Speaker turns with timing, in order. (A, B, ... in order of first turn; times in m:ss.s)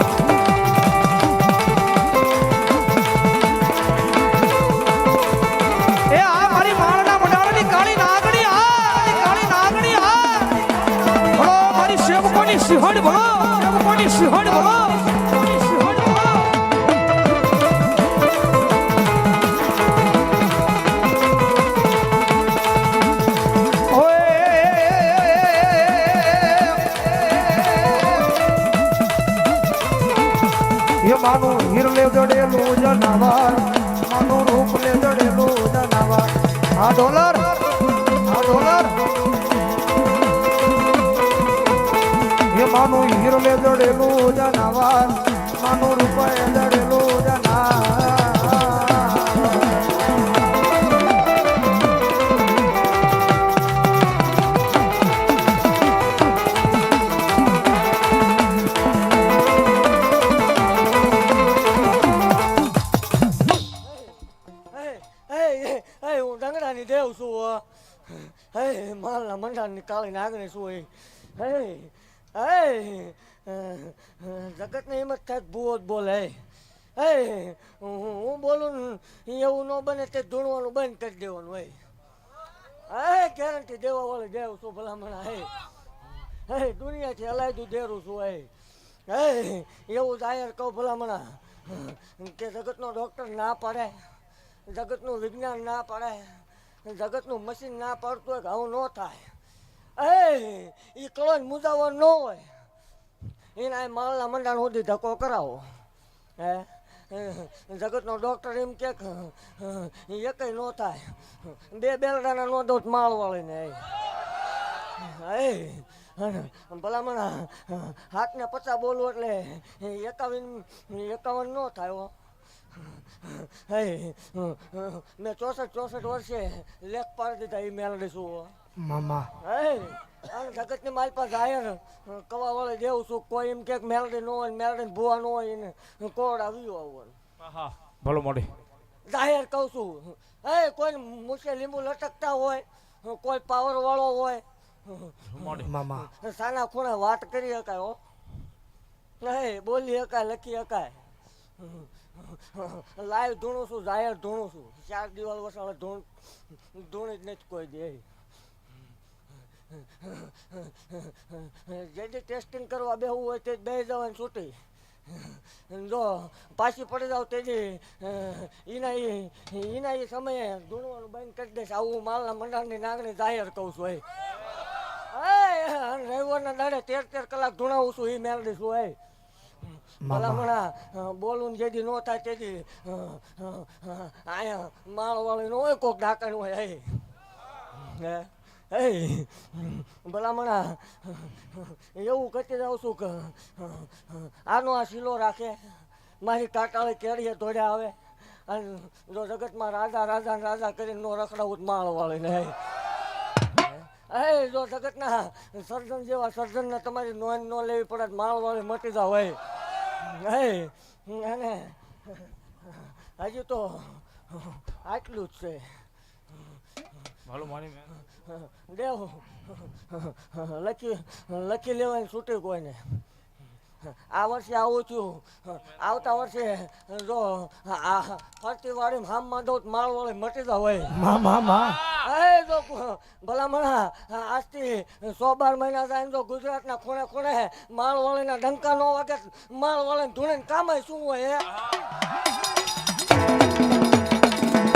0:06.1-0:16.6 A
0:23.9-0:28.4 A
0:31.0-0:37.7 A
0:38.2-0:39.0 A
0:42.5-0:49.7 A
1:03.8-1:04.1 B
1:04.7-1:21.8 B
1:22.9-1:25.6 B
1:26.4-1:28.5 B
1:29.1-1:39.4 B
1:40.0-1:42.6 B
1:43.5-1:45.8 B
1:46.4-1:53.9 B
1:54.8-2:02.1 B
2:02.7-2:08.6 B
2:08.8-2:09.3 A
2:09.4-2:17.2 B
2:17.4-2:18.5 C
2:19.0-2:28.0 B
2:25.3-2:25.7 C
2:25.6-2:26.1 A
2:29.2-2:38.1 B
2:39.7-2:54.0 B
2:55.0-2:59.0 B
3:00.0-3:00.4 A
3:00.0-3:07.1 B
3:07.7-3:22.7 B
3:23.4-3:35.8 B
3:37.2-3:37.9 C
3:38.1-3:43.0 B
3:43.8-3:51.1 B
3:50.9-3:51.8 A
3:51.8-4:01.6 B